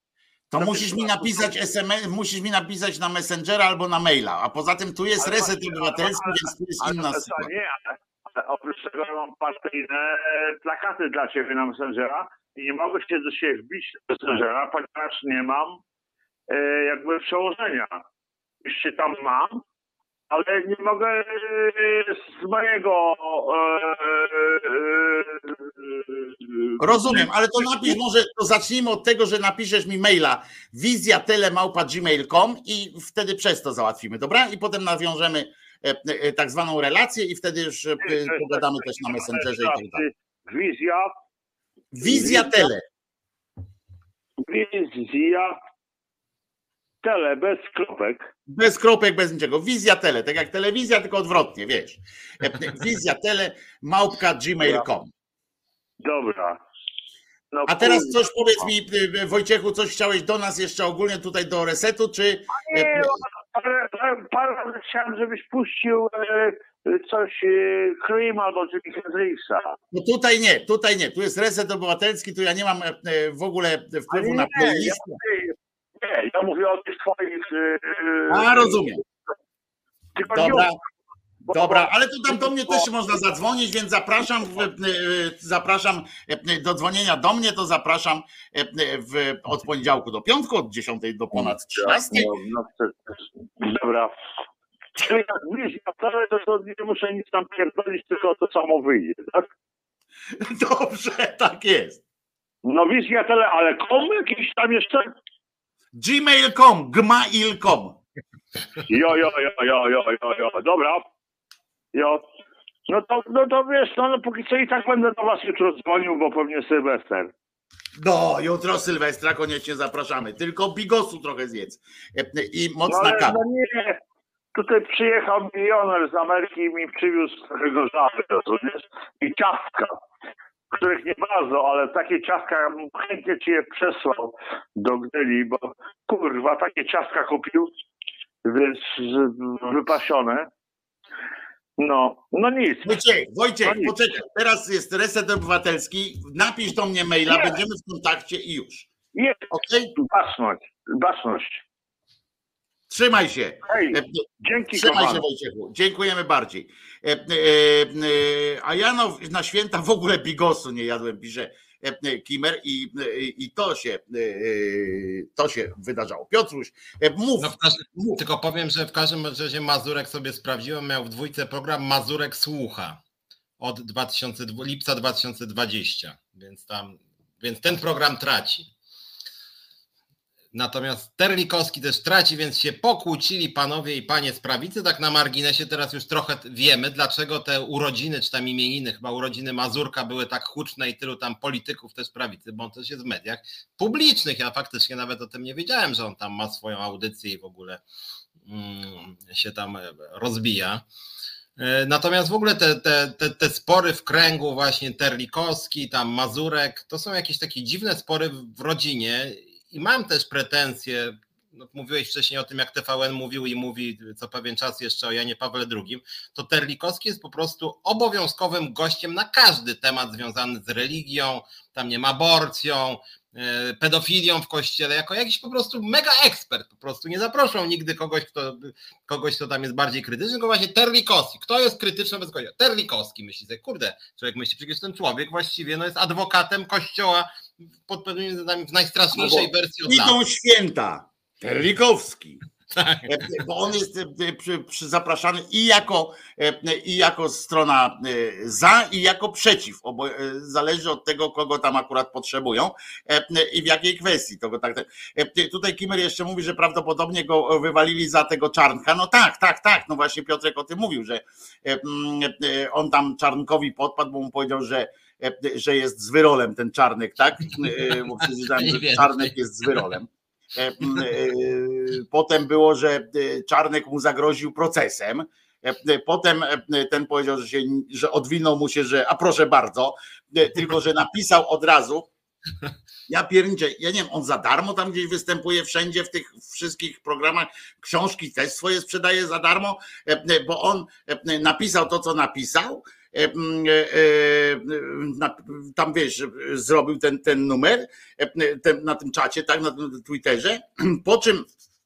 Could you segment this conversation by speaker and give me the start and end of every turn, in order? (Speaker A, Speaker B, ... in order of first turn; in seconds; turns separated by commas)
Speaker A: 0.5-7.5, Speaker B: 0.6-1.5, Speaker B: 5.2-15.8, Speaker B: 16.5-18.0, Speaker B: 18.6-19.6, Speaker B: 20.3-28.0, Speaker A: 26.8-40.0, Speaker B: 38.0-41.1, Speaker A: 41.9-42.8, Speaker B: 42.0-42.7, Speaker B: 44.4-45.6, Speaker B: 47.0-48.2, Speaker A: 48.5-55.1, Speaker B: 56.0-56.6, Speaker B: 57.5-58.2, Speaker A: 57.7-63.2, Speaker B: 62.5-69.8, Speaker A: 69.9-75.2, Speaker B: 74.1-79.0, Speaker A: 78.3-79.0, Speaker B: 80.2-80.7, Speaker A: 80.3-80.8, Speaker B: 81.5-82.8, Speaker A: 81.5-92.3, Speaker B: 91.3-94.1, Speaker B: 95.0-99.5, Speaker A: 100.4-102.0, Speaker B: 102.6-105.1, Speaker A: 106.0-108.0, Speaker B: 108.9-111.0, Speaker B: 111.9-112.3, Speaker B: 112.9-117.3, Speaker A: 118.0-123.4, Speaker B: 122.9-124.0, Speaker B: 124.5-130.0, Speaker B: 130.7-137.7, Speaker B: 138.4-140.5, Speaker B: 141.8-143.0, Speaker A: 142.8-148.9, Speaker B: 143.6-144.0, Speaker B: 149.1-151.6, Speaker A: 149.5-149.9, Speaker A: 152.9-168.2, Speaker B: 153.7-155.2, Speaker C: 167.4-173.0, Speaker C: 173.6-178.7, Speaker C: 180.5-197.8, Speaker C: 198.5-200.8, Speaker C: 201.6-237.3, Speaker C: 237.8-240.2, Speaker A: 239.1-242.4, Speaker C: 242.7-243.2, Speaker A: 243.1-282.1, Speaker C: 267.6-269.3, Speaker A: 283.1-301.5